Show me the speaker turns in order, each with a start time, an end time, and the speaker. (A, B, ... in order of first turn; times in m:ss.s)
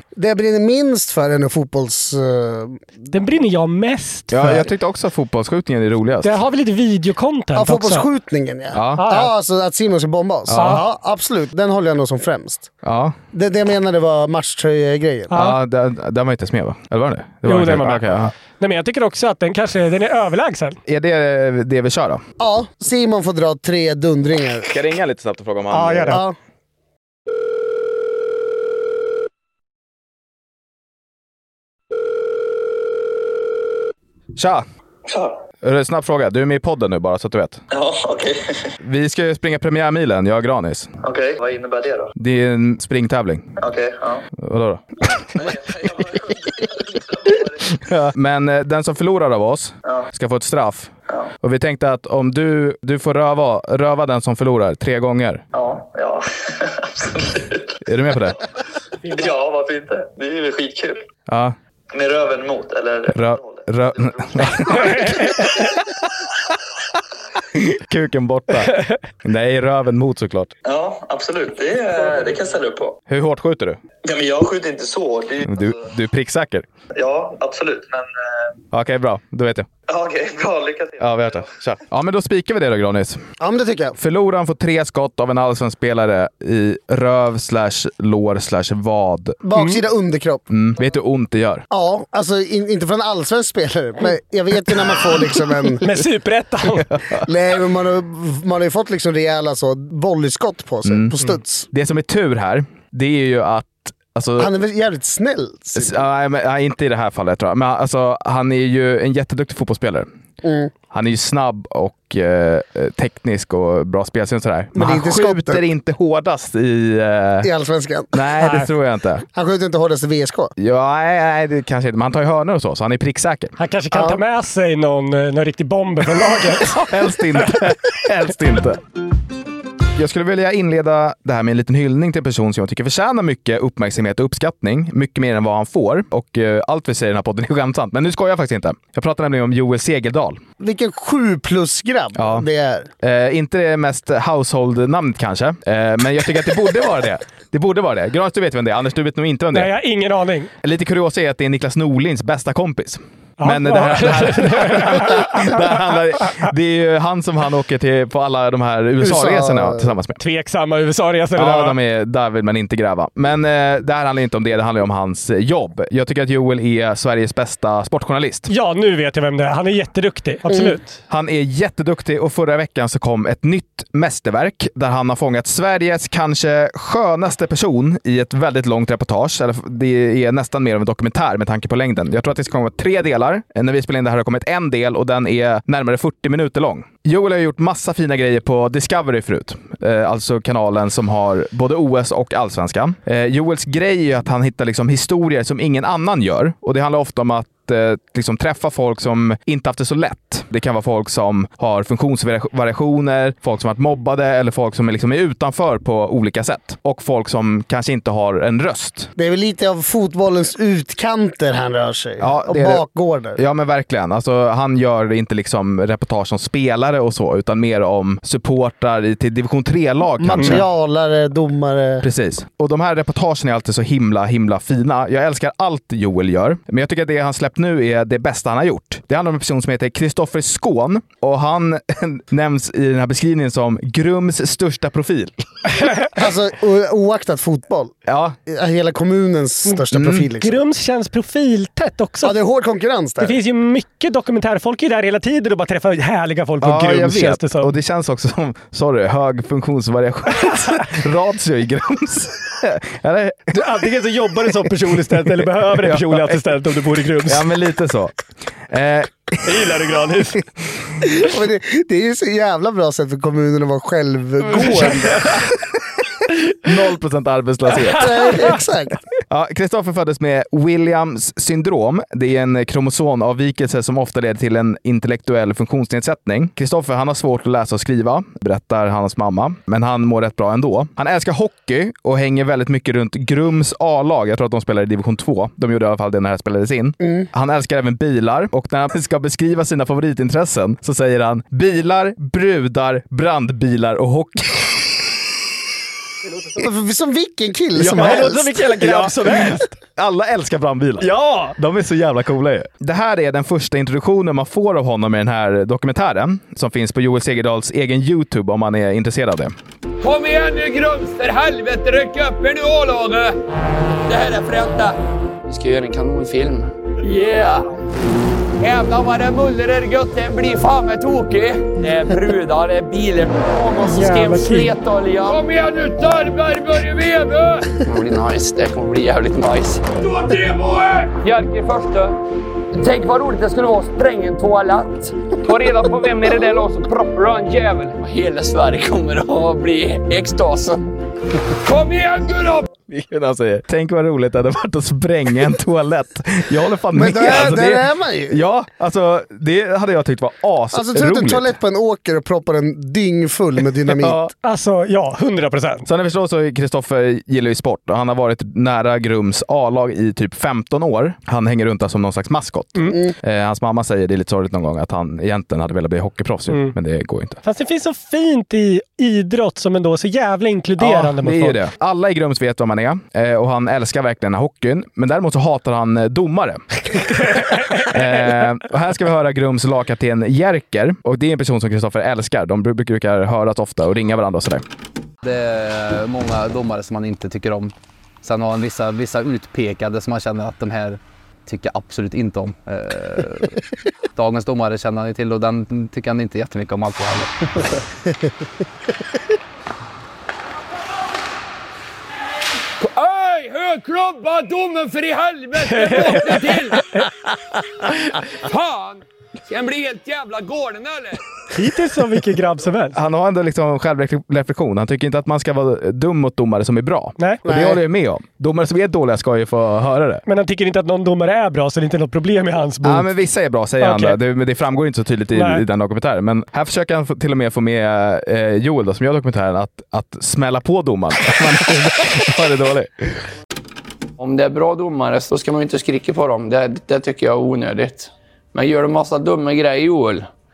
0:00.2-0:02.8 A
0:03.1-0:04.6 B
0:04.3-0:06.4 C
0:06.2-0:08.0 B
0:07.6-0:12.7 A
0:08.7-0:09.0 C
0:09.0-0:09.3 B
0:10.5-0:10.8 C
0:10.6-0:10.8 B
0:12.8-0:13.2 C
0:13.3-0:15.4 A
0:15.3-0:18.3 C
0:17.5-0:20.8 B
0:20.9-0:22.2 C
0:22.4-0:24.7 A
0:24.7-0:26.2 C
0:25.7-0:26.2 B
0:26.1-0:26.4 A
0:34.4-0:34.6 C
0:35.1-0:35.4 D
0:35.6-0:37.6 C
0:37.7-0:38.6 D
0:38.8-0:40.9 C
0:41.0-0:42.1 D
0:42.2-0:43.5 C
0:43.6-0:44.2 D
0:44.4-0:44.8 C
0:45.2-0:47.8 D
0:47.7-0:50.9 C
0:51.4-0:55.4 C
0:55.5-0:57.7 D
0:57.8-0:58.4 C
0:59.1-1:01.0 D
1:01.3-1:01.6 C
1:01.9-1:05.4 D
1:03.1-1:05.4 C
1:04.8-1:05.5 B
1:07.6-1:10.5 C
1:10.6-1:13.0 D
1:13.1-1:13.8 C
1:14.0-1:15.8 D
1:15.4-1:16.6 C
1:17.0-1:18.5 D
1:18.7-1:19.7 C
1:19.9-1:21.5 D
1:21.0-1:23.2 C
1:23.4-1:24.0 A
1:24.0-1:29.4 C
1:29.4-1:30.4 A
1:30.5-1:31.6 C
1:31.7-1:35.8 A
1:35.8-1:36.8 B
1:36.9-1:37.2 C
1:37.2-1:41.7 A
1:40.8-1:41.1 C
1:41.7-1:44.5 C
1:44.4-1:46.0 A
1:45.8-1:50.1 C
1:50.4-1:50.7 A
1:50.9-1:57.5 C
1:54.8-1:55.6 A
1:57.4-1:58.1 A
1:58.1-1:59.2 C
1:58.4-1:58.7 B
1:59.3-2:00.5 A
2:00.6-2:03.6 C
2:03.6-2:06.7 B
2:03.9-2:04.2 A
2:06.8-2:08.8 C
2:10.0-2:20.4 C
2:20.6-2:22.9 A
2:22.2-2:22.5 C
2:23.0-2:29.7 C
2:29.5-2:30.5 B
2:30.6-2:40.2 C
2:33.4-2:35.5 B
2:39.0-2:40.0 A
2:40.2-2:41.8 B
2:41.4-2:48.5 C
2:48.5-2:50.9 B
2:50.5-2:50.8 A
2:51.1-3:29.1 C
3:29.2-3:33.4 A
3:32.2-3:32.8 C
3:33.4-3:40.6 C
3:40.2-3:42.1 A
3:42.0-3:55.3 C
3:56.2-3:57.9 A
3:58.1-3:58.4 C
3:58.5-4:00.6 A
4:00.0-4:00.2 C
4:00.4-4:02.3 B
4:02.2-4:03.4 A
4:03.2-4:07.7 B
4:06.6-4:13.6 C
4:13.5-4:17.4 B
4:15.3-4:16.6 C
4:17.2-4:18.1 C
4:18.7-4:19.7 C
4:19.5-4:20.3 B
4:21.1-4:25.3 A
4:26.6-4:28.2 C
4:28.0-4:29.0 A
4:29.3-4:55.1 C
4:47.0-4:47.3 A
4:56.6-4:58.5 A
4:57.8-5:09.5 C
4:57.9-4:59.6 B
5:01.0-5:01.5 B
5:10.0-5:13.4 E
5:14.1-5:17.7 E
5:18.6-5:32.2 E
5:23.9-5:24.7 B
5:32.8-5:40.9 E
5:41.6-5:42.7 E
5:42.9-5:51.5 C
5:46.9-5:48.4 A
5:50.7-5:54.3 A
5:53.9-5:54.3 C
5:54.4-5:55.8 B
5:55.9-6:07.4 C
6:07.4-6:11.6 B
6:10.8-6:16.6 C
6:17.8-6:24.6 C
6:25.2-6:33.6 F
6:34.2-6:37.6 F
6:42.8-6:46.8 E
6:48.4-6:51.2 E
6:51.5-6:53.0 B
6:53.0-7:00.2 C
6:57.5-6:57.8 A
7:00.3-7:03.0 B
7:02.8-7:13.1 C
7:03.8-7:04.1 B
7:05.4-7:05.6 B
7:14.2-7:20.3 E